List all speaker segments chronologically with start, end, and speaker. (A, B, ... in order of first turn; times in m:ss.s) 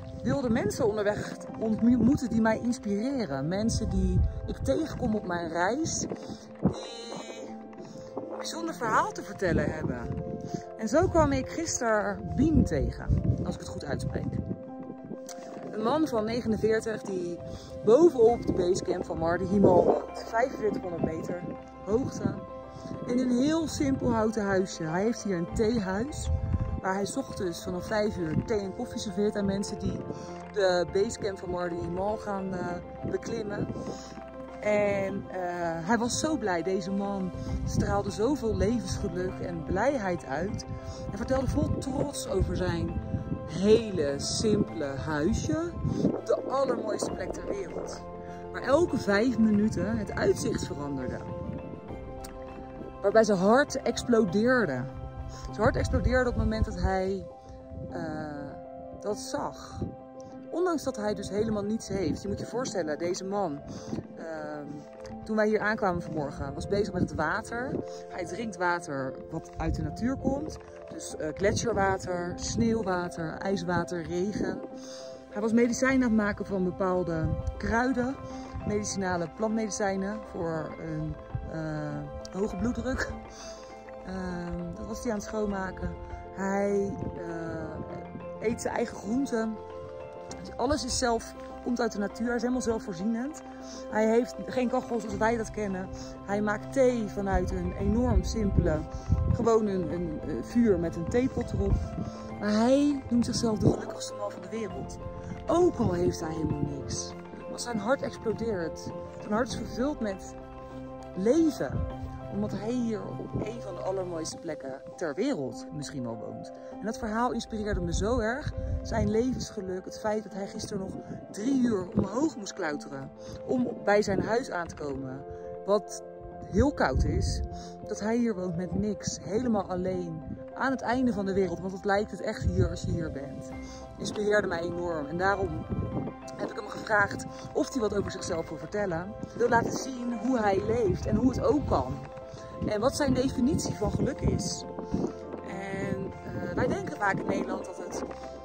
0:00.2-0:06.1 A
0:06.7-0:07.6 A
0:08.4-0:10.2 A
0:10.8-0:14.4 A
0:15.7-0:22.5 A
0:23.1-0:33.7 A
0:34.6-0:51.3 A
0:53.0-0:54.9 A
0:55.5-0:57.3 A
0:57.9-0:59.9 A
1:00.5-1:03.6 A
1:04.2-1:14.7 A
1:15.3-1:23.2 A
1:24.0-1:29.6 A
1:30.4-1:41.8 A
1:42.4-1:50.4 A
1:51.2-2:15.7 A
2:16.4-2:22.1 A
2:22.7-2:24.7 A
2:25.4-2:28.1 A